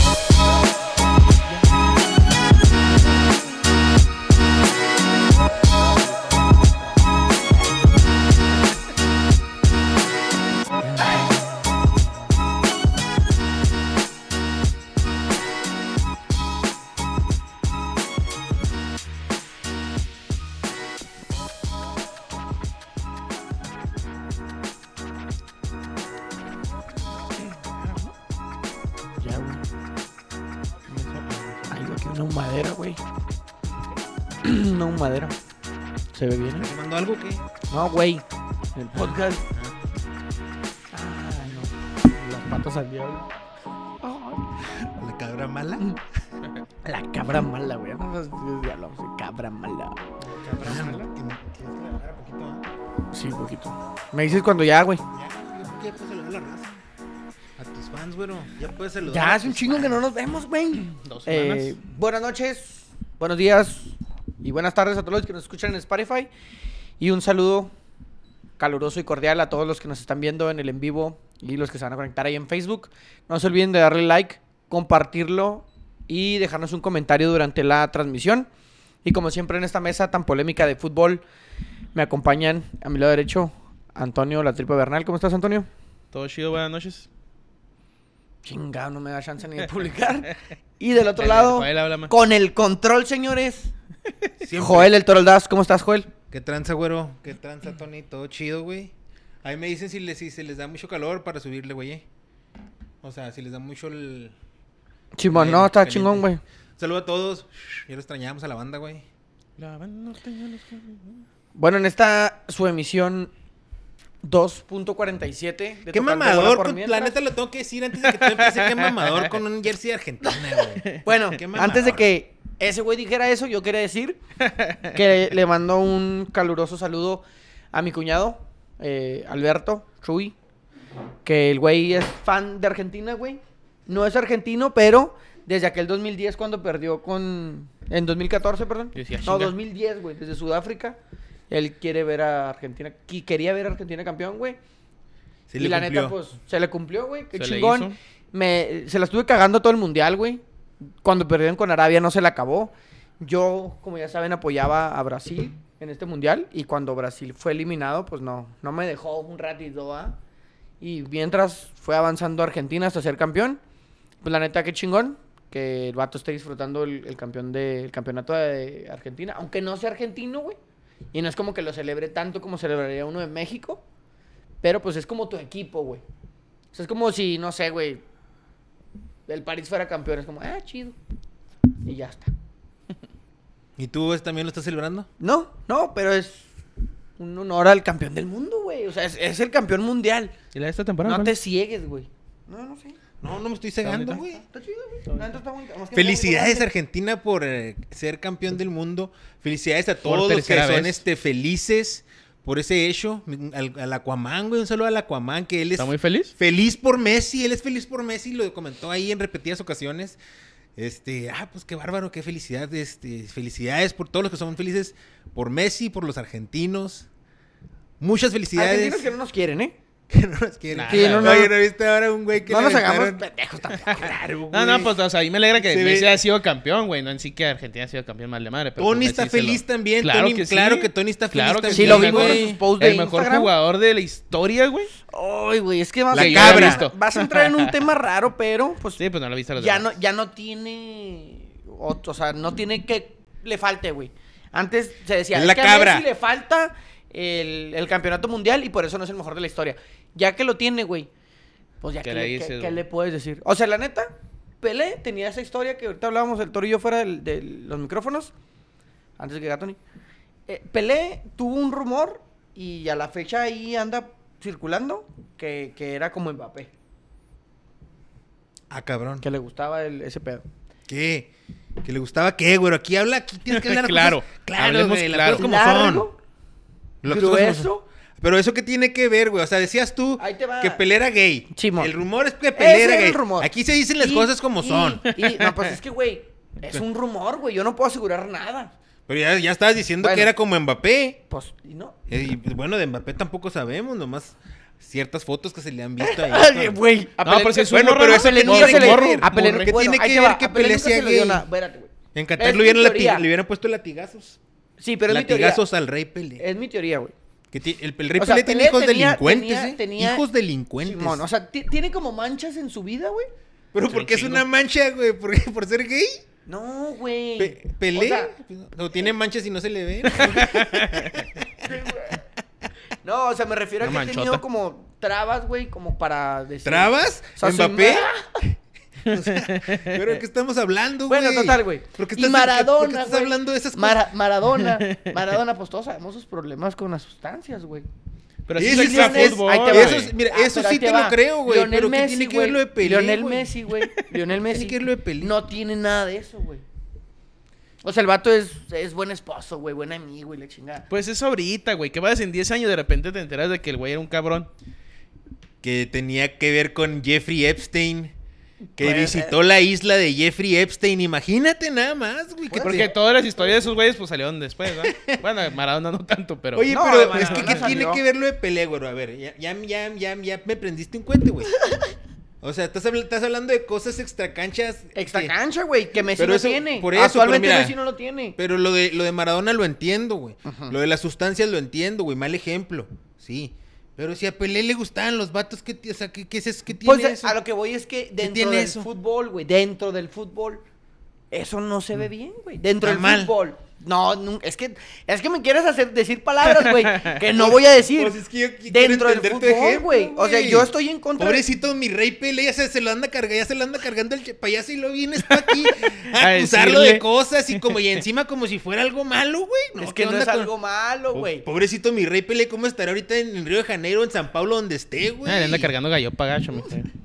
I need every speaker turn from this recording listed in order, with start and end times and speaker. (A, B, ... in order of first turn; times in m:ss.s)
0:06.2-0:06.8 A
0:27.5-0:28.1 B
0:29.2-0:29.6 A
0:30.9-0:31.8 B
0:31.7-0:33.0 A
0:34.4-0:35.3 A
0:36.1-0:36.7 A
0:36.6-0:37.4 C
0:37.7-0:38.2 A
0:38.8-0:39.4 A
0:38.9-0:39.7 C
0:40.9-0:43.3 A
0:44.0-0:44.4 A
0:44.8-0:45.8 C
0:46.8-0:51.0 A
0:50.6-0:52.7 C
0:53.1-0:55.0 A
0:55.1-0:56.8 C
0:57.6-1:00.0 C
0:59.0-1:06.3 A
1:00.9-1:01.7 B
1:07.0-1:07.7 A
1:08.6-1:18.5 A
1:19.0-1:21.2 A
1:21.9-1:25.7 A
1:26.1-1:27.1 B
1:28.4-1:33.7 A
1:31.2-1:32.1 B
1:34.4-1:34.9 C
1:34.5-1:36.1 A
1:36.3-1:38.9 C
1:39.4-1:42.0 C
1:43.0-1:44.3 C
1:45.2-1:46.4 A
1:45.3-1:46.2 C
1:46.8-1:49.0 C
1:49.6-1:51.2 B
1:51.6-1:53.3 A
1:54.2-1:57.2 A
1:55.9-2:02.0 C
1:58.0-1:59.3 B
2:00.2-2:04.2 A
2:04.5-2:04.8 B
2:04.9-2:10.3 A
2:11.2-2:21.0 A
2:18.9-2:19.5 B
2:21.5-2:24.6 A
2:25.5-2:26.2 C
2:25.6-2:30.4 A
2:27.3-2:27.9 B
2:31.0-2:40.2 A
2:40.8-2:43.6 A
2:44.2-2:50.6 A
2:51.1-2:53.8 A
2:54.6-2:56.0 A
2:56.7-2:58.0 A
2:59.3-3:01.0 A
3:01.8-3:02.3 A
3:03.8-3:05.1 C
3:05.2-3:06.5 A
3:07.2-3:10.3 A
3:10.5-3:11.3 B
3:11.0-3:13.0 A
3:13.2-3:14.4 C
3:13.8-3:14.2 B
3:14.4-3:16.7 A
3:15.1-3:15.3 B
3:15.9-3:30.2 C
3:20.0-3:21.0 B
3:25.8-3:26.3 B
3:30.8-3:37.1 C
3:38.0-3:39.1 C
3:38.5-3:39.7 A
3:40.1-3:43.2 C
3:40.7-3:41.4 B
3:40.9-3:41.5 A
3:42.4-3:44.2 A
3:43.8-3:44.9 C
3:44.5-3:54.9 B
3:45.6-3:46.2 C
3:48.8-3:52.6 C
3:51.7-3:53.5 A
3:55.1-3:59.0 A
3:56.1-3:56.8 C
3:56.1-3:57.7 B
3:59.0-3:59.9 B
3:59.6-4:11.1 A
4:05.3-4:06.0 C
4:11.8-4:18.3 A
4:12.0-4:12.8 B
4:19.2-4:19.8 A
4:20.5-4:26.7 A
4:28.7-4:29.2 C
4:29.2-4:30.4 A
4:30.9-4:31.3 C
4:31.8-4:36.1 C
4:33.5-4:35.5 B
4:35.3-4:36.2 A
4:37.0-4:45.0 C
4:37.0-4:37.9 A
4:40.2-4:40.8 A
4:41.5-4:41.9 A
4:42.5-4:48.7 A
4:45.1-4:45.7 B
4:49.1-4:51.2 C
4:50.0-4:50.3 A
4:51.3-4:52.0 A
4:52.1-4:56.8 C
4:56.0-5:03.3 A
4:57.2-4:59.7 B
4:57.7-5:01.4 C
5:02.1-5:04.4 C
5:04.8-5:05.6 A
5:05.1-5:06.4 C
5:06.4-5:07.1 A
5:07.5-5:11.2 C
5:08.2-5:10.2 A
5:10.8-5:13.3 A
5:13.7-5:16.2 C
5:13.8-5:14.4 B
5:16.4-5:18.3 A
5:17.4-5:21.9 C
5:20.1-5:21.2 B
5:21.6-5:22.2 A
5:23.0-5:28.5 A
5:23.8-5:24.4 B
5:26.6-5:28.1 C
5:29.0-5:30.0 B
5:29.0-5:34.0 C
5:31.1-5:37.9 A
5:34.6-5:35.1 B
5:38.5-5:40.1 B
5:38.6-5:43.5 C
5:38.6-5:46.6 A
5:43.7-5:44.0 B
5:44.4-5:45.3 C
5:47.8-5:50.8 A
5:50.9-5:54.5 B
5:55.6-5:58.1 C
5:58.8-5:59.4 A
5:58.8-6:02.9 C
6:02.5-6:03.7 A
6:02.6-6:07.6 B
6:04.7-6:05.2 C
6:06.5-6:11.5 C
6:06.7-6:08.0 A
6:12.4-6:15.3 C
6:14.9-6:18.4 A
6:16.0-6:17.7 C
6:18.4-6:27.3 C
6:20.4-6:20.7 A
6:26.8-6:30.6 A
6:28.2-6:28.9 C
6:31.3-6:41.4 A
6:32.8-6:33.3 C
6:36.6-6:37.1 B
6:37.2-6:50.5 C
6:45.3-6:47.8 B
6:49.8-6:51.4 A
6:51.1-6:55.7 C
6:55.2-6:56.9 B